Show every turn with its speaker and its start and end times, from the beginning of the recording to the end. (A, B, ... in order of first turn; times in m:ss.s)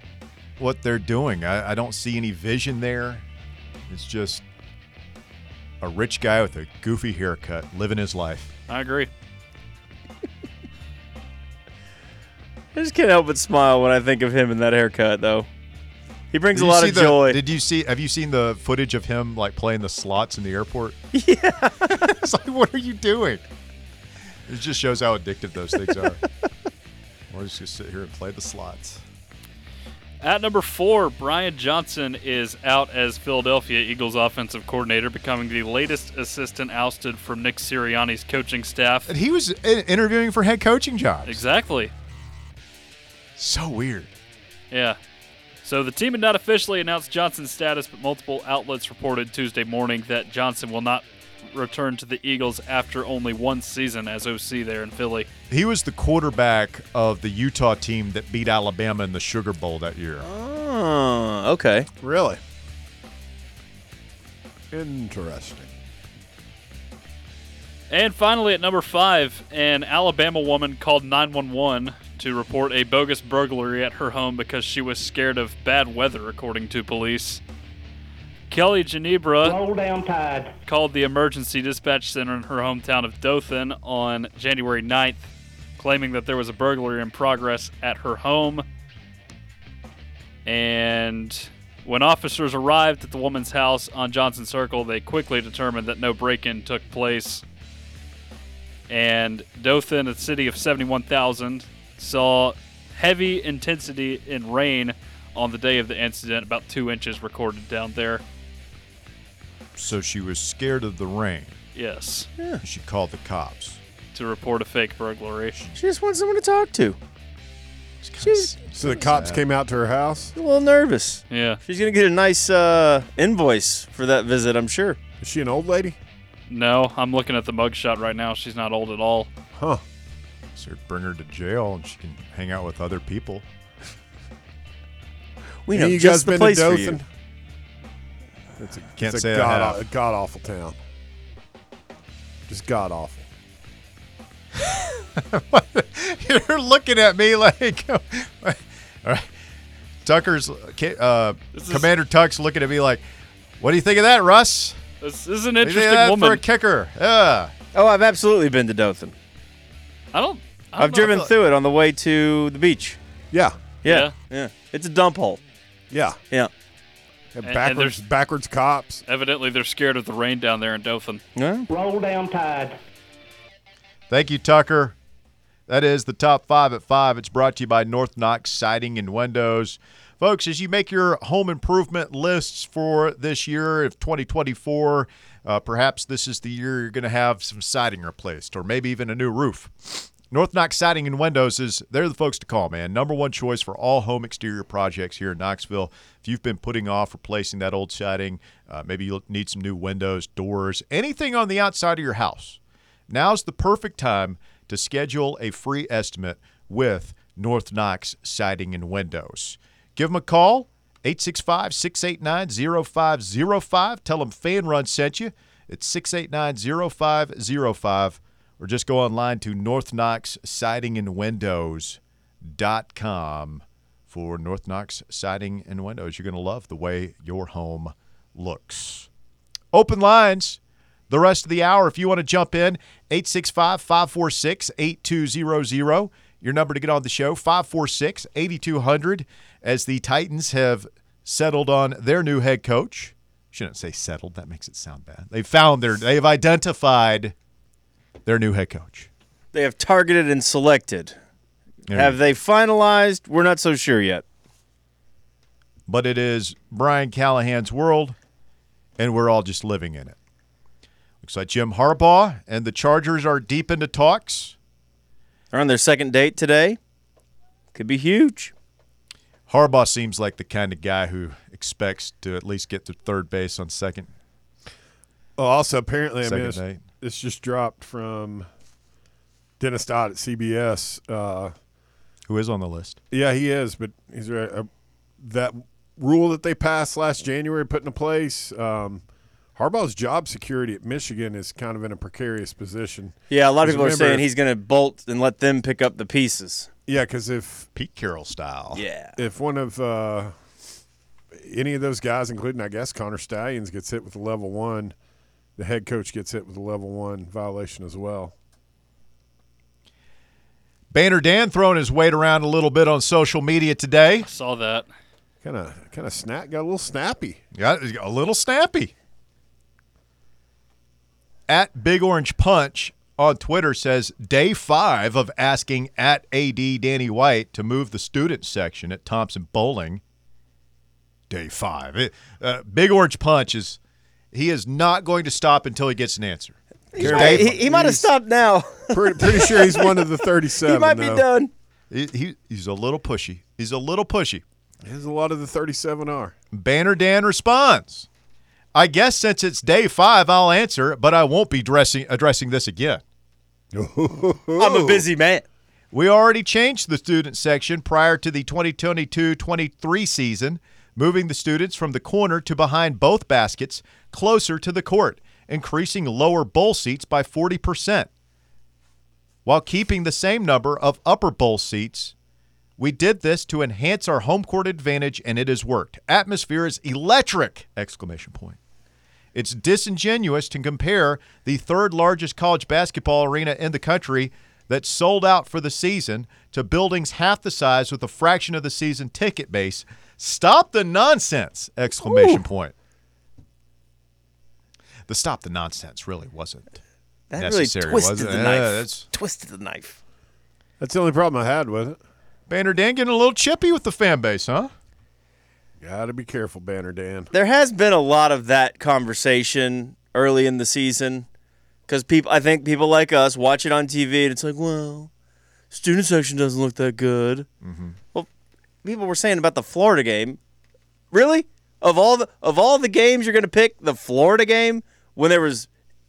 0:00.6-0:03.2 A
0:03.9-0:04.4 A
0:05.8-0:08.5 A
0:08.7-0:09.1 B
0:12.7-0:15.5 C
0:16.3-0:17.4 C
0:16.5-0:21.0 A
0:21.1-0:22.1 C
0:21.8-0:23.4 A
0:24.4-0:26.2 A
0:27.3-0:29.0 A
0:30.2-0:39.1 B
0:39.1-0:41.4 A
0:41.2-0:41.9 B
0:43.4-0:44.1 A
0:44.7-0:45.0 B
0:45.6-0:55.3 B
0:55.5-1:00.2 A
1:00.2-1:01.9 C
1:02.0-1:02.4 D
1:04.7-1:05.7 D
1:07.9-1:17.4 B
1:18.5-1:19.6 B
1:19.4-1:20.5 E
1:20.6-1:28.6 B
1:30.4-1:37.4 B
1:38.9-1:48.2 B
1:49.7-1:51.6 A
1:51.7-1:52.3 B
1:52.6-1:53.8 A
1:54.1-1:55.6 B
1:55.7-1:57.0 C
1:58.0-1:59.4 A
1:58.2-1:58.5 C
1:58.8-2:00.3 D
2:00.4-2:05.0 C
2:01.3-2:01.6 B
2:05.2-2:06.0 D
2:06.5-2:09.3 B
2:09.6-2:09.8 D
2:10.5-2:13.4 A
2:15.7-2:17.0 C
2:15.7-2:17.0 D
2:18.6-2:20.8 D
2:19.0-2:19.8 A
2:22.5-2:23.2 D
2:24.5-2:29.3 A
2:30.0-2:33.0 A
2:31.5-2:31.9 B
2:33.6-2:34.8 A
2:35.0-2:36.4 B
2:35.6-2:37.5 A
2:37.7-2:39.2 C
2:40.1-2:41.3 B
2:40.8-2:43.0 C
2:43.3-2:43.6 D
2:43.8-2:45.4 C
2:43.8-2:44.1 B
2:45.9-2:46.2 D
2:47.3-2:49.0 D
2:47.4-2:48.0 B
2:49.0-2:51.2 B
2:51.4-2:51.6 C
2:51.7-2:52.8 E
2:54.1-2:55.0 A
2:55.7-3:49.1 A
3:49.7-3:50.6 A
3:51.1-4:07.3 A
4:08.2-4:09.1 A
4:09.5-4:11.2 C
4:11.9-4:12.2 A
4:11.9-4:14.2 C
4:15.9-4:18.2 A
4:19.0-4:20.2 A
4:21.2-4:24.5 A
4:25.5-4:26.8 C
4:27.7-4:28.5 C
4:29.5-4:34.1 A
4:35.4-4:38.5 D
4:36.2-4:36.8 A
4:39.6-4:41.5 D
4:42.3-4:43.0 A
4:43.1-4:44.7 D
4:45.2-4:49.0 D
4:49.6-4:54.2 D
4:53.3-4:56.7 C
4:56.9-4:57.7 D
4:57.7-4:58.8 A
4:58.7-4:59.2 C
4:59.2-5:00.3 D
5:01.3-5:04.9 D
5:05.6-5:08.3 D
5:10.9-5:14.3 A
5:14.2-5:14.9 B
5:15.4-5:17.4 D
5:17.5-5:18.9 A
5:21.5-5:30.0 A
5:31.3-5:33.8 A
5:34.3-5:37.5 A
5:36.9-5:41.5 C
5:37.0-5:38.1 D
5:38.9-5:41.2 D
5:41.9-5:44.4 A
5:44.8-5:46.3 D
5:46.5-5:48.1 A
5:48.7-5:53.0 A
5:53.7-5:55.0 D
5:54.6-5:55.4 C
5:55.9-6:08.1 A
6:09.4-6:12.1 A
6:12.8-6:18.6 A
6:19.3-6:32.7 A
6:32.0-6:32.4 C
6:35.1-6:36.8 A
6:37.3-6:40.0 C
6:37.4-6:39.1 A
6:40.8-6:42.0 D
6:42.5-6:44.7 A
6:45.8-6:47.3 D
6:47.3-6:51.3 C
6:51.9-6:55.1 C
6:55.7-6:57.5 C
6:57.6-6:58.0 A
6:58.8-7:00.4 C
7:01.1-7:05.7 C